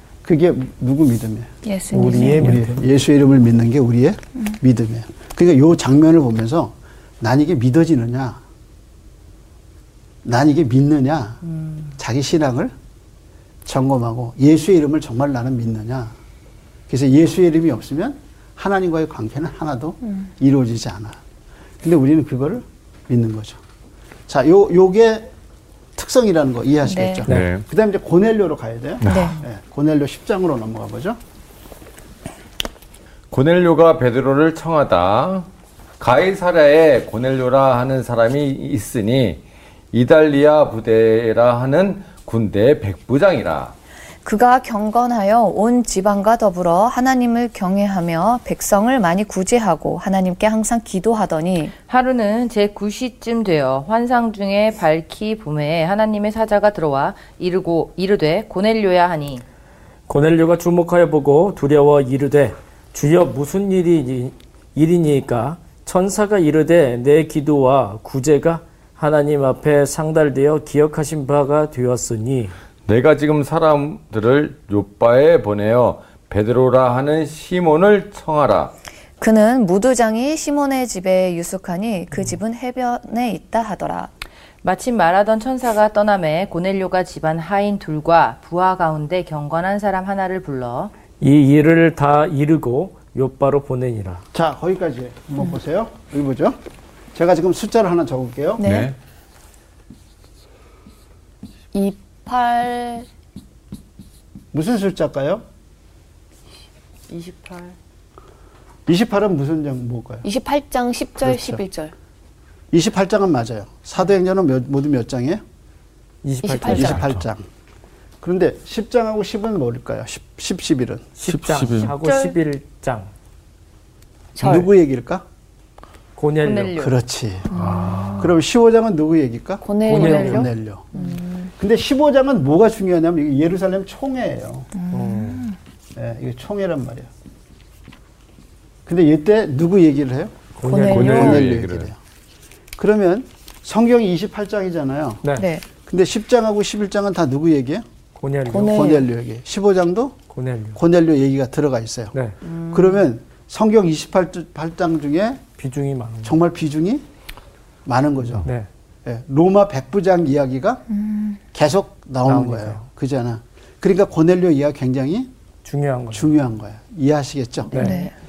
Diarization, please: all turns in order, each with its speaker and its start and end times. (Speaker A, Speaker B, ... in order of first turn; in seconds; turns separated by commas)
Speaker A: 0.2-1.5, Speaker B: 1.6-2.6, Speaker C: 1.9-2.8, Speaker A: 2.1-8.4, Speaker A: 10.2-11.4, Speaker D: 11.5-11.9, Speaker A: 12.0-12.7, Speaker A: 13.6-16.1, Speaker A: 16.9-21.2, Speaker A: 21.8-23.6, Speaker A: 24.3-25.3, Speaker A: 25.9-31.2, Speaker B: 26.8-27.2, Speaker E: 27.3-27.6, Speaker E: 29.0-29.4, Speaker B: 29.1-29.4, Speaker E: 33.3-35.5, Speaker E: 36.0-39.4, Speaker E: 39.9-43.7, Speaker B: 44.2-51.7, Speaker D: 51.9-59.4, Speaker C: 60.1-72.5, Speaker E: 72.8-78.7, Speaker B: 79.2-84.1, Speaker D: 84.6-90.9, Speaker C: 91.2-94.2, Speaker A: 94.3-96.6, Speaker A: 97.1-98.6, Speaker B: 98.6-98.9, Speaker E: 98.6-99.0, Speaker B: 101.7-103.1, Speaker A: 104.5-105.4, Speaker D: 107.1-107.7, Speaker A: 108.9-110.2, Speaker B: 110.2-111.9, Speaker A: 111.2-111.6, Speaker A: 112.7-115.4, Speaker C: 116.2-117.1, Speaker B: 116.4-117.0, Speaker A: 116.6-117.5, Speaker A: 118.2-121.1, Speaker C: 121.2-123.1, Speaker E: 121.2-121.9, Speaker D: 121.8-122.4, Speaker B: 124.3-124.7, Speaker A: 124.4-125.2, Speaker C: 126.2-126.8, Speaker D: 126.4-126.9, Speaker A: 126.8-130.9, Speaker B: 127.5-128.3, Speaker E: 127.5-128.3, Speaker B: 129.6-131.5, Speaker C: 129.8-130.5, Speaker D: 130.9-131.2, Speaker A: 131.6-134.7, Speaker B: 134.8-135.6, Speaker C: 134.9-135.5, Speaker A: 135.9-137.1, Speaker A: 138.8-142.0, Speaker C: 140.6-141.3, Speaker B: 140.6-141.5, Speaker E: 140.9-141.9, Speaker A: 142.8-145.2, Speaker B: 145.4-145.7, Speaker A: 145.8-147.8, Speaker C: 148.2-148.8, Speaker B: 148.5-149.1, Speaker A: 148.5-150.2, Speaker C: 150.3-150.8, Speaker A: 150.7-152.1, Speaker D: 152.4-153.0, Speaker A: 152.7-155.4, Speaker C: 155.6-156.4, Speaker A: 156.2-157.0, Speaker A: 157.8-158.5, Speaker A: 159.0-160.8, Speaker B: 160.9-161.4, Speaker A: 161.5-165.3, Speaker C: 162.2-162.8, Speaker C: 165.6-166.3, Speaker A: 166.1-167.9, Speaker C: 167.7-168.1, Speaker B: 167.7-168.1